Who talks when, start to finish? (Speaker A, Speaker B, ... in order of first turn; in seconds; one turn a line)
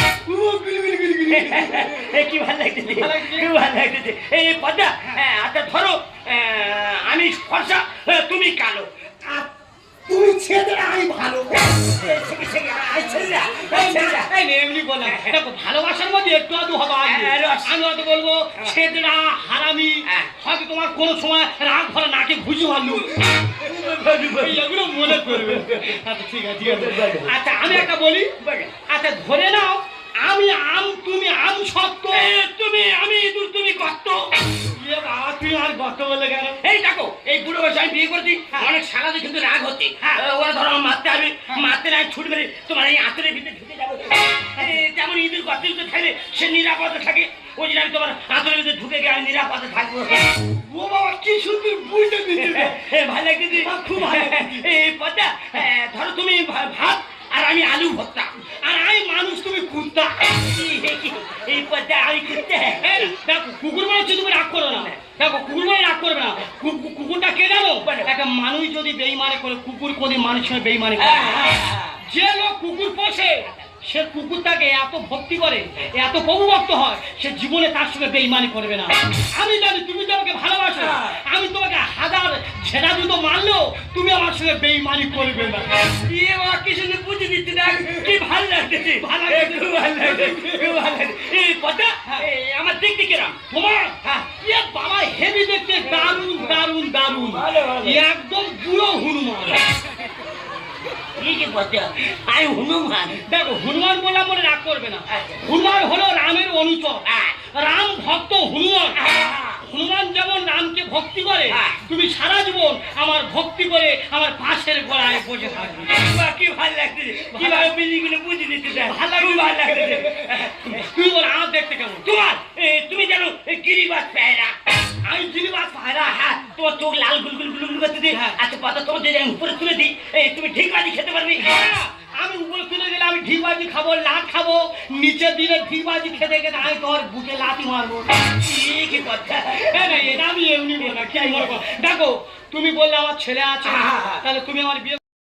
Speaker A: 0.2-1.8
Speaker B: 1.3-8.9
Speaker A: 2.9-3.5
Speaker A: 10.1-11.7
Speaker B: 11.6-14.3
Speaker A: 13.0-23.1
Speaker B: 15.0-15.4
Speaker B: 17.0-17.7
Speaker B: 22.9-25.9
Speaker A: 24.4-28.3
Speaker B: 26.7-27.9
Speaker B: 28.4-28.7
Speaker A: 28.9-32.2
Speaker B: 32.1-34.3
Speaker A: 34.7-36.6
Speaker B: 36.6-50.3
Speaker A: 50.7-52.8
Speaker B: 52.3-58.3
Speaker A: 53.6-54.6
Speaker A: 58.6-60.3
Speaker B: 60.3-63.1
Speaker A: 62.8-85.7
Speaker B: 64.7-65.0
Speaker B: 67.8-68.1
Speaker B: 71.0-72.0
Speaker B: 85.8-93.3
Speaker A: 89.0-90.6
Speaker A: 93.5-99.6
Speaker B: 97.4-98.0
Speaker B: 101.2-103.2
Speaker A: 103.2-109.0
Speaker B: 107.1-107.3
Speaker B: 109.0-109.6
Speaker A: 109.6-115.9
Speaker B: 111.5-111.8
Speaker B: 115.8-120.8
Speaker A: 117.3-117.7
Speaker A: 118.8-122.1
Speaker B: 122.0-124.5
Speaker A: 125.1-126.2
Speaker B: 126.0-131.4
Speaker A: 128.1-128.4
Speaker A: 131.4-138.1
Speaker B: 138.4-140.2
Speaker A: 139.7-145.0
Speaker B: 140.9-141.3
Speaker B: 143.7-144.2